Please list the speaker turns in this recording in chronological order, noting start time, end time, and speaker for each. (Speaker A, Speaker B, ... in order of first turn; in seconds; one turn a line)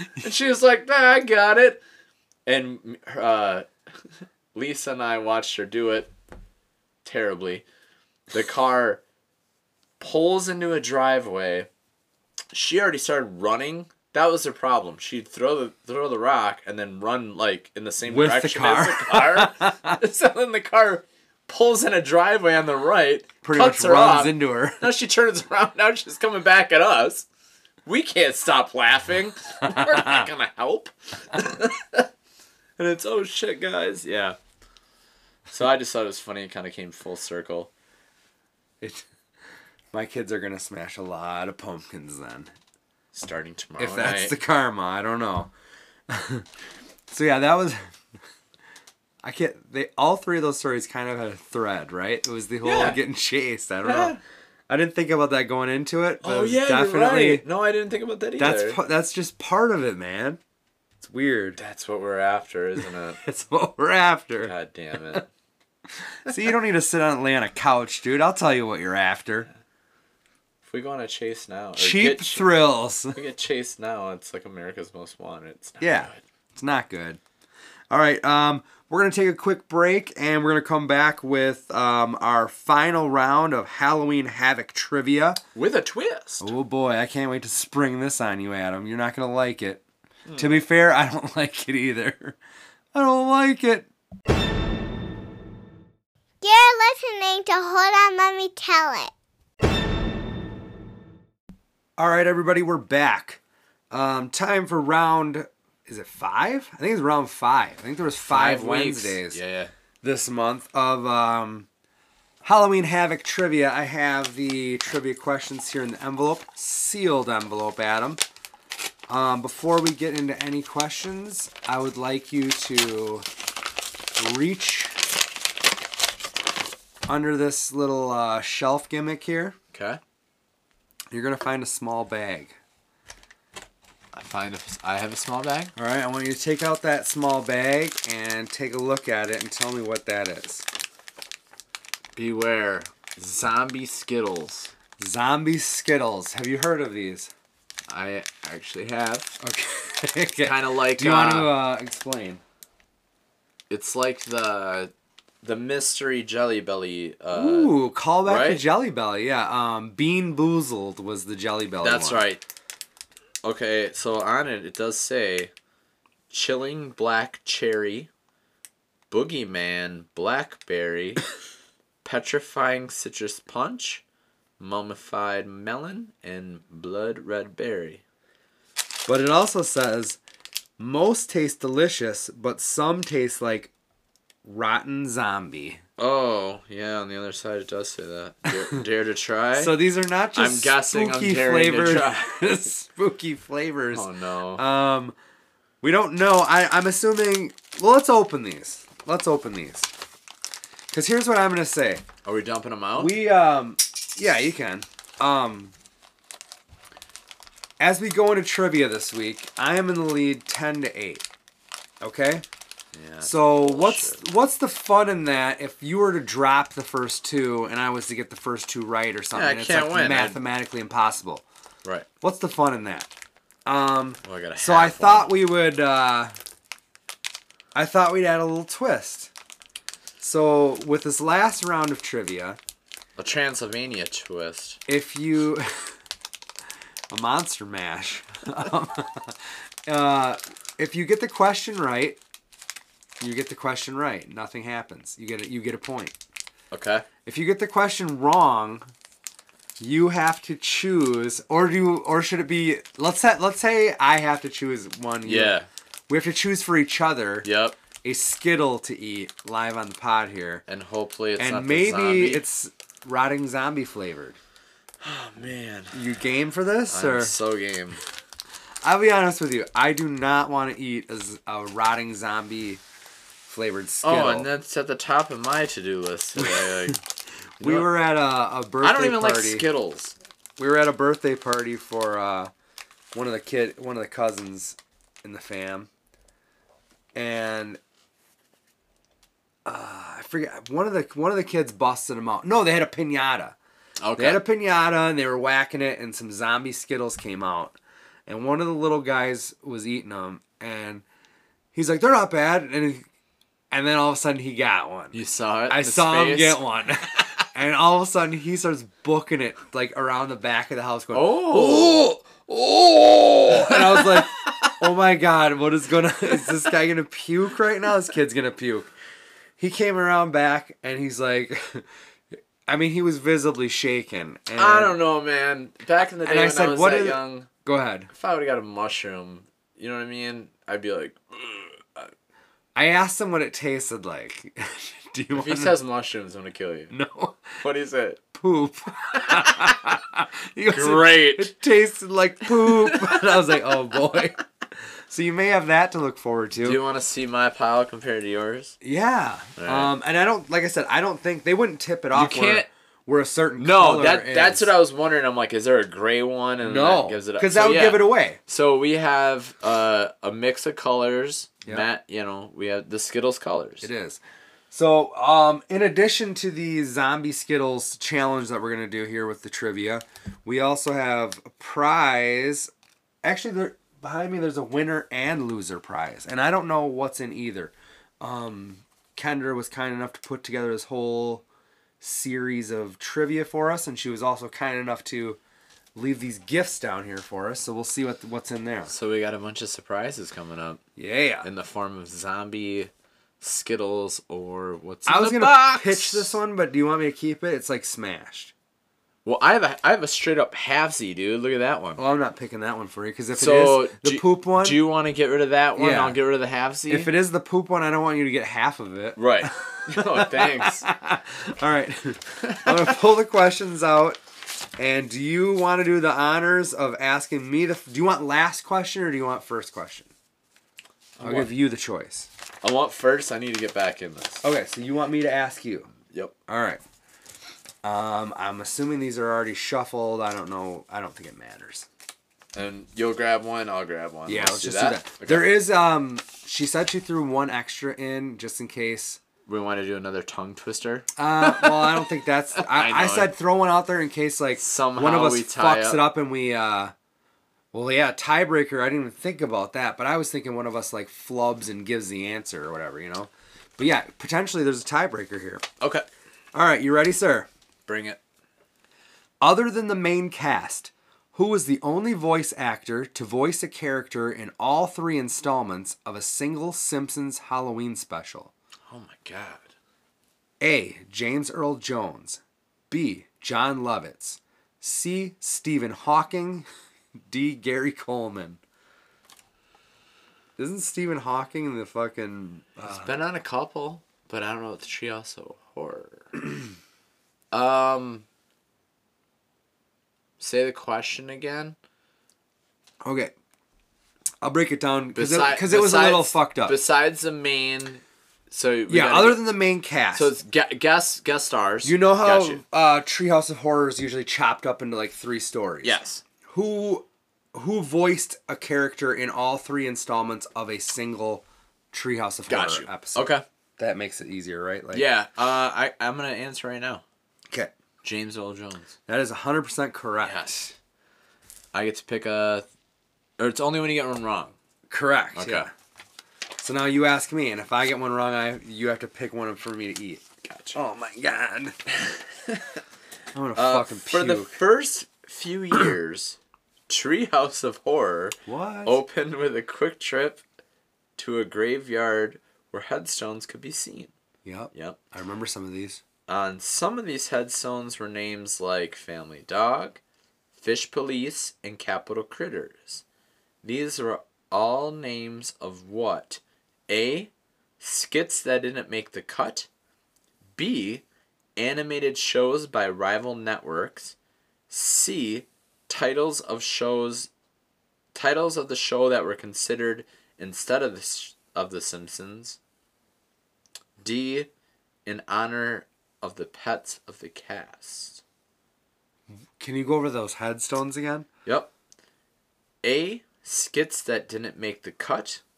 Speaker A: 0.2-1.8
Speaker A: 2.5-3.7
Speaker A: 4.5-6.1
Speaker A: 7.0-7.6
Speaker A: 8.3-9.0
Speaker A: 10.0-11.7
Speaker A: 12.5-27.2
Speaker B: 18.0-20.0
Speaker B: 23.4-24.9
Speaker A: 27.9-32.1
Speaker B: 29.7-30.2
Speaker A: 32.8-34.4
Speaker A: 35.5-37.7
Speaker B: 39.9-42.5
Speaker A: 43.1-44.4
Speaker B: 43.8-45.5
Speaker B: 46.1-46.5
Speaker B: 47.1-47.8
Speaker B: 49.2-54.2
Speaker A: 52.6-53.0
Speaker A: 53.8-54.2
Speaker B: 54.7-57.4
Speaker A: 56.2-58.8
Speaker B: 58.4-60.4
Speaker B: 61.0-61.6
Speaker A: 61.6-63.2
Speaker B: 63.2-64.5
Speaker A: 64.4-65.3
Speaker B: 66.2-69.5
Speaker A: 70.6-72.5
Speaker B: 71.8-73.2
Speaker A: 73.1-76.2
Speaker B: 75.8-77.2
Speaker B: 77.9-85.4
Speaker A: 85.5-86.5
Speaker B: 86.4-89.8
Speaker A: 90.2-90.6
Speaker B: 90.4-92.4
Speaker B: 92.9-93.9
Speaker C: 96.4-99.1
Speaker B: 102.0-103.4
Speaker B: 103.9-109.4
Speaker A: 108.3-109.7
Speaker B: 110.0-111.7
Speaker B: 112.4-118.2
Speaker B: 119.1-123.2
Speaker B: 124.2-125.0
Speaker B: 127.0-129.6
Speaker A: 129.7-130.0
Speaker B: 131.1-132.5
Speaker A: 134.1-135.7
Speaker B: 135.8-140.6
Speaker A: 142.2-144.7
Speaker B: 145.0-147.3
Speaker A: 147.9-149.4
Speaker B: 149.4-152.4
Speaker A: 150.4-151.5
Speaker A: 153.7-154.9
Speaker A: 155.4-158.6
Speaker B: 157.3-162.3
Speaker A: 161.8-162.4
Speaker A: 163.4-165.5
Speaker A: 166.3-168.1
Speaker A: 169.1-171.2
Speaker A: 172.0-174.0
Speaker A: 174.6-178.0
Speaker B: 179.1-180.2
Speaker B: 180.8-183.7
Speaker B: 184.4-185.8
Speaker A: 186.0-189.8
Speaker B: 189.5-195.1
Speaker A: 190.3-192.5
Speaker A: 193.9-194.6
Speaker B: 195.8-199.9
Speaker B: 200.9-202.0
Speaker A: 202.2-203.1
Speaker B: 202.9-205.7
Speaker B: 207.8-211.2
Speaker B: 212.0-212.4
Speaker A: 212.9-214.2
Speaker B: 213.2-221.4
Speaker A: 219.3-220.4
Speaker B: 222.2-223.1
Speaker B: 223.7-226.3
Speaker A: 224.2-225.3
Speaker B: 227.7-229.3
Speaker B: 230.2-232.6
Speaker A: 233.2-234.8
Speaker B: 234.9-235.9
Speaker B: 237.1-242.2
Speaker B: 243.2-246.1
Speaker A: 246.7-247.1
Speaker B: 247.2-248.9
Speaker B: 249.8-255.6
Speaker A: 255.2-255.7
Speaker B: 256.1-257.5
Speaker A: 257.4-257.8
Speaker B: 258.0-260.6
Speaker A: 260.7-262.4
Speaker B: 261.4-264.4
Speaker A: 265.0-266.0
Speaker B: 265.9-267.3
Speaker A: 266.9-268.0
Speaker B: 268.8-272.8
Speaker B: 273.4-274.5
Speaker A: 274.0-277.0
Speaker A: 277.6-277.9
Speaker B: 277.6-279.7
Speaker A: 278.8-280.1
Speaker B: 280.6-282.5
Speaker B: 283.1-285.9
Speaker B: 287.1-287.8
Speaker B: 289.6-293.6
Speaker A: 294.0-294.4
Speaker B: 294.2-301.0
Speaker B: 301.7-303.1
Speaker B: 303.7-305.2
Speaker A: 305.1-306.6
Speaker B: 305.7-318.9
Speaker A: 311.1-312.0
Speaker A: 313.5-314.3
Speaker B: 319.6-321.9
Speaker B: 322.6-325.0
Speaker A: 324.6-327.5
Speaker B: 326.2-328.1
Speaker A: 328.1-332.1
Speaker B: 332.7-335.8
Speaker A: 335.3-336.9
Speaker B: 336.9-337.6
Speaker A: 337.6-338.2
Speaker B: 338.3-344.4
Speaker A: 339.1-339.7
Speaker A: 340.7-341.5
Speaker A: 342.6-343.2
Speaker B: 345.1-346.8
Speaker A: 346.6-348.8
Speaker B: 348.8-354.7
Speaker A: 349.6-349.9
Speaker A: 352.1-352.7
Speaker A: 353.6-363.9
Speaker B: 356.6-358.4
Speaker B: 363.8-364.2
Speaker B: 364.7-372.7
Speaker B: 373.2-381.4
Speaker B: 382.0-385.4
Speaker B: 385.9-388.9
Speaker A: 388.9-390.8
Speaker B: 391.0-391.5
Speaker A: 391.4-396.4
Speaker B: 395.1-398.5
Speaker A: 399.2-402.0
Speaker B: 401.9-404.8
Speaker A: 403.3-407.1
Speaker B: 405.8-406.2
Speaker B: 406.9-414.2
Speaker A: 409.1-410.9
Speaker A: 412.4-412.8
Speaker B: 414.8-420.1
Speaker A: 421.2-421.5
Speaker B: 421.2-422.3
Speaker A: 422.6-424.4
Speaker B: 424.4-425.9
Speaker A: 426.1-426.3
Speaker B: 426.5-426.8
Speaker B: 427.8-431.9
Speaker A: 432.5-435.5
Speaker B: 434.3-439.2
Speaker A: 439.4-443.3
Speaker B: 441.2-446.9
Speaker A: 444.6-446.0
Speaker B: 447.7-455.6
Speaker A: 455.8-456.1
Speaker B: 456.5-457.5
Speaker A: 457.9-458.2
Speaker B: 459.4-468.5
Speaker A: 468.9-469.7
Speaker B: 470.6-476.6
Speaker B: 477.2-478.6
Speaker B: 480.6-483.1
Speaker A: 482.8-486.3
Speaker A: 487.5-488.2
Speaker A: 490.4-491.8
Speaker B: 493.0-493.3
Speaker B: 494.4-496.8
Speaker A: 495.1-499.5
Speaker B: 498.9-500.3
Speaker A: 500.1-502.6
Speaker B: 501.8-515.0
Speaker A: 505.8-506.2
Speaker A: 512.5-513.4
Speaker A: 514.9-517.0
Speaker A: 518.0-518.9
Speaker B: 519.1-520.7
Speaker A: 520.2-520.7
Speaker A: 521.7-522.6
Speaker A: 523.4-524.5
Speaker B: 524.9-525.7
Speaker A: 525.3-525.7
Speaker B: 526.6-530.2
Speaker A: 530.4-530.8
Speaker B: 530.7-531.8
Speaker B: 533.3-534.6
Speaker A: 533.5-536.4
Speaker A: 536.9-540.4
Speaker B: 538.5-539.0
Speaker A: 541.2-544.1
Speaker B: 544.4-546.0
Speaker A: 544.7-545.0
Speaker A: 546.3-550.0
Speaker A: 550.5-553.0
Speaker A: 553.6-559.7
Speaker A: 560.6-561.0
Speaker A: 561.5-564.1
Speaker A: 564.7-567.3
Speaker A: 568.1-572.6
Speaker A: 574.0-574.5
Speaker A: 575.0-578.2
Speaker B: 579.6-581.3
Speaker A: 581.4-581.7
Speaker A: 582.8-585.4